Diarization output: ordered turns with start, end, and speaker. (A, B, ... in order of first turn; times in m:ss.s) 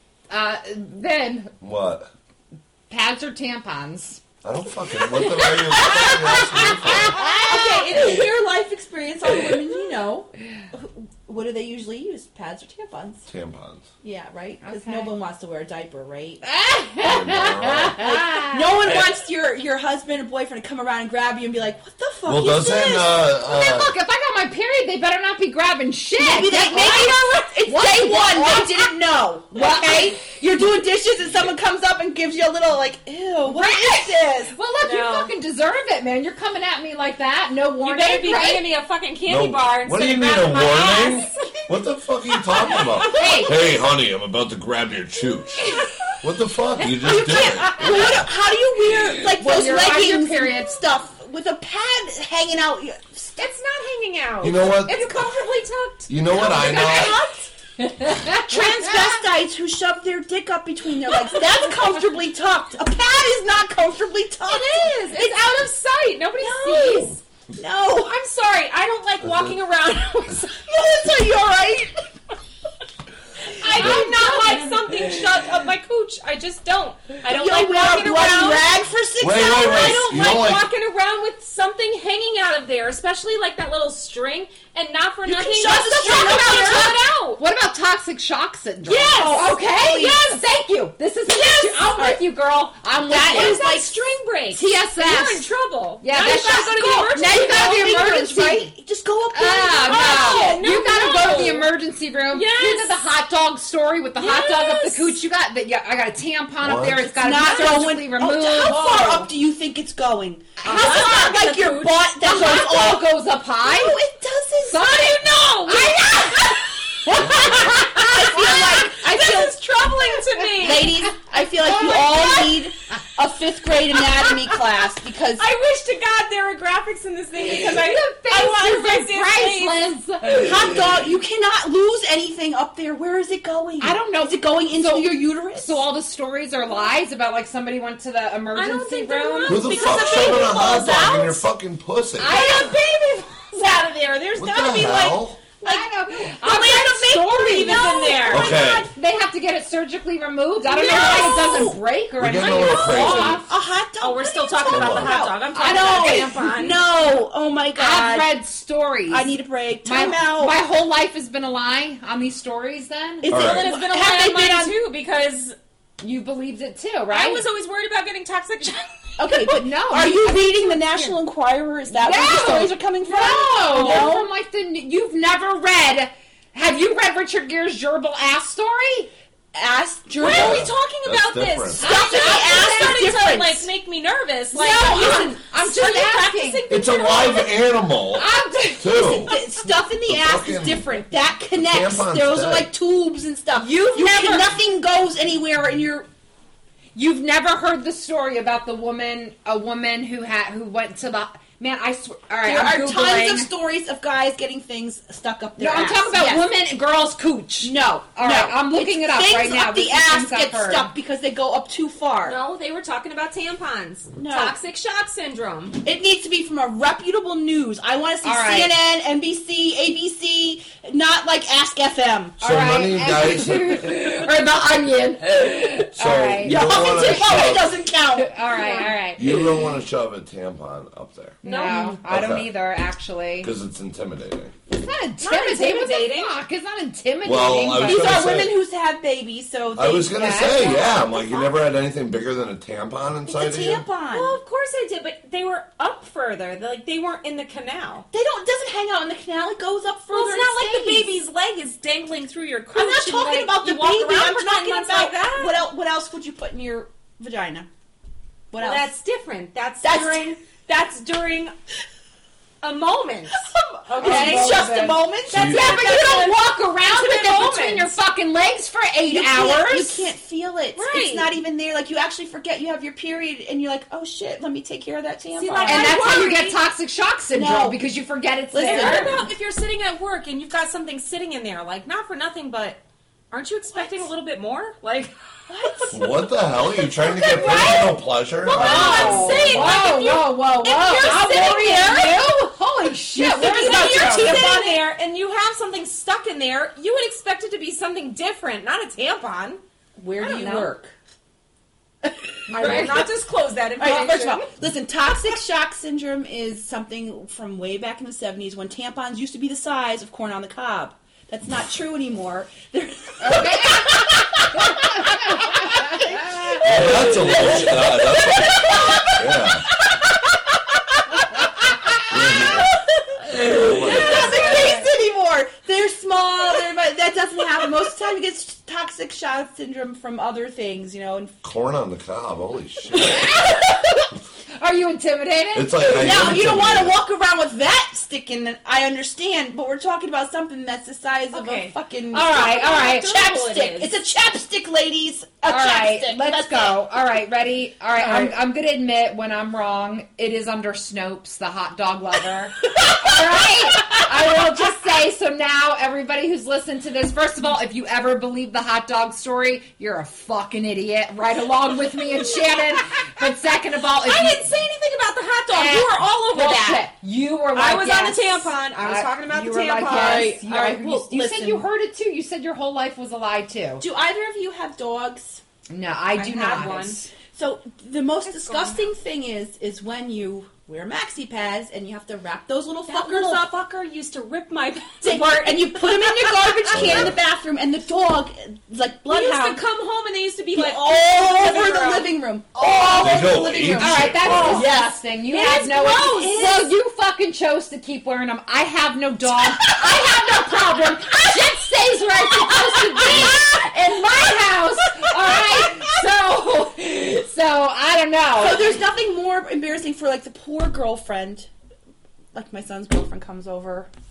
0:00.3-0:01.5 A
0:01.6-0:02.1 B
0:02.9-0:04.2 A
0:04.4-0:07.2 B
0:05.0-0:08.1 A
0:07.4-0:13.2 C
0:13.3-0:13.9 B
0:14.0-0:16.4 C
0:14.6-0:15.1 A
0:16.4-0:18.9 A
0:17.0-0:18.0 B
0:17.9-0:23.2 C
0:22.2-0:23.9 B
0:23.4-0:28.9 A
0:26.2-0:34.5 C
0:26.7-0:27.1 D
0:29.5-0:30.2 A
0:33.4-0:38.6 A
0:34.8-0:35.3 D
0:37.8-0:41.7 D
0:39.2-0:48.2 B
0:42.3-0:43.5 D
0:43.1-0:43.6 A
0:46.8-0:53.3 C
0:49.4-0:50.8 A
0:53.4-0:57.5 D
0:54.4-0:55.3 B
0:56.1-0:57.2 B
0:56.4-0:57.1 C
0:57.8-0:59.2 A
0:58.1-1:05.6 C
1:04.7-1:05.2 A
1:05.1-1:07.2 D
1:06.4-1:08.0 C
1:07.8-1:10.6 D
1:10.6-1:12.0 C
1:13.5-1:18.7 D
1:13.6-1:14.8 A
1:13.8-1:14.0 B
1:17.3-1:20.0 C
1:19.2-1:20.7 B
1:19.5-1:27.4 D
1:25.2-1:27.0 C
1:27.4-1:33.6 A
1:28.8-1:29.5 D
1:29.1-1:30.4 C
1:31.3-1:32.0 D
1:33.0-1:33.9 C
1:33.2-1:38.0 D
1:34.5-1:38.7 A
1:37.1-1:40.6 C
1:39.3-1:49.2 A
1:39.8-1:41.7 D
1:42.3-1:43.0 D
1:44.2-1:45.2 D
1:46.6-1:47.1 B
1:47.1-1:53.0 C
1:47.3-1:47.8 D
1:48.6-1:49.3 D
1:50.6-1:51.2 A
1:50.6-1:52.0 D
1:52.2-1:54.0 A
1:53.6-1:55.1 C
1:54.6-1:58.5 A
1:54.9-2:01.0 D
1:57.1-1:57.8 B
1:57.5-2:05.4 C
2:01.6-2:02.5 D
2:05.4-2:09.8 D
2:07.4-2:10.7 A
2:10.4-2:15.8 C
2:13.8-2:19.9 A
2:18.5-2:21.4 D
2:19.4-2:22.5 B
2:20.0-2:20.6 C
2:22.2-2:23.0 A
2:22.2-2:25.1 D
2:23.6-2:28.6 C
2:24.4-2:25.4 B
2:25.6-2:33.5 A
2:27.3-2:28.5 D
2:28.3-2:28.9 B
2:30.6-2:31.8 C
2:32.2-2:33.4 B
2:32.4-2:38.3 C
2:32.9-2:33.4 D
2:34.0-2:36.8 D
2:34.7-2:35.1 B
2:35.6-2:36.3 A
2:37.8-2:39.3 A
2:39.1-2:40.6 C
2:39.8-2:43.3 A
2:43.2-2:44.7 C
2:43.3-2:43.7 B
2:43.3-2:45.6 D
2:46.0-2:47.4 A
2:47.1-2:49.2 D
2:49.2-2:54.3 C
2:49.4-2:51.1 A
2:51.9-2:59.1 A
2:53.2-2:54.1 D
2:59.5-3:00.7 C
3:00.2-3:07.6 D
3:00.2-3:01.8 B
3:01.8-3:03.7 C
3:01.8-3:03.0 A
3:04.5-3:06.6 A
3:04.7-3:05.3 C
3:06.7-3:09.3 B
3:08.1-3:09.4 A
3:08.9-3:16.1 C
3:10.1-3:10.8 B
3:11.5-3:12.7 B
3:13.5-3:14.6 D
3:16.9-3:23.5 A
3:22.4-3:26.4 C
3:25.6-3:30.9 A
3:27.6-3:32.4 C
3:32.2-3:35.8 D
3:34.2-3:34.6 C
3:35.8-3:42.4 C
3:38.2-3:38.7 A
3:42.4-3:47.5 A
3:42.4-3:44.1 B
3:45.9-3:47.8 B
3:46.4-3:48.4 C
3:48.2-3:49.3 A
3:48.5-3:48.9 D
3:49.2-3:51.4 B
3:51.4-3:52.0 D
3:51.4-3:53.5 A
3:52.0-3:52.5 B
3:53.4-3:54.5 B
3:54.7-3:58.2 A
3:55.2-3:56.3 D
3:57.2-3:58.6 B
3:57.8-4:01.5 C
3:59.7-4:03.8 B
4:00.1-4:00.7 A
4:03.3-4:04.4 C
4:04.1-4:08.1 D
4:08.1-4:11.1 C
4:10.1-4:15.6 D
4:12.7-4:17.7 C
4:18.5-4:18.9 C
4:18.6-4:21.5 D
4:19.8-4:20.3 C
4:22.6-4:24.7 D
4:23.4-4:25.8 C
4:24.0-4:30.1 A
4:25.3-4:27.9 D
4:25.3-4:25.8 B
4:29.1-4:36.1 C
4:30.7-4:31.3 D
4:35.3-4:36.6 D
4:35.6-4:39.1 A
4:37.3-4:37.8 C
4:38.5-4:39.3 C
4:38.6-4:45.9 D
4:43.7-4:44.1 C
4:45.5-4:47.9 C
4:45.9-4:49.9 B
4:47.0-4:52.3 D
4:48.5-4:54.5 A
4:53.2-4:59.6 D
4:53.3-4:54.8 C
5:00.0-5:00.9 C
5:00.2-5:00.7 D
5:02.5-5:03.0 A
5:02.5-5:03.1 C
5:02.6-5:04.5 D
5:03.8-5:19.4 C
5:13.2-5:13.9 A
5:14.6-5:16.0 A
5:16.6-5:19.7 B
5:22.0-5:31.3 C
5:22.0-5:22.7 B
5:23.2-5:24.6 B
5:23.8-5:24.2 D
5:31.4-5:33.2 B
5:33.2-5:33.6 A
5:34.6-5:36.3 A
5:35.5-5:37.0 B
5:35.8-5:46.7 C
5:41.3-5:43.9 D
5:42.1-5:43.1 A
5:45.5-6:04.4 A
6:04.0-6:06.8 D
6:05.5-6:13.8 A
6:07.5-6:10.3 D
6:09.7-6:11.6 C
6:13.8-6:15.4 C
6:15.7-6:17.1 A
6:16.2-6:17.0 D
6:17.3-6:23.5 C
6:18.2-6:18.8 D
6:22.9-6:27.0 D
6:25.0-6:29.6 C
6:26.7-6:27.2 B
6:29.1-6:33.3 D
6:30.5-6:34.9 C
6:33.0-6:34.7 B
6:33.8-6:48.8 A
6:35.3-6:36.3 D
6:35.6-6:36.6 C
6:39.6-6:40.2 C
6:42.5-6:43.4 C
6:43.1-6:43.4 B
6:45.1-6:45.8 C
6:48.3-6:51.5 C
6:52.3-6:53.9 C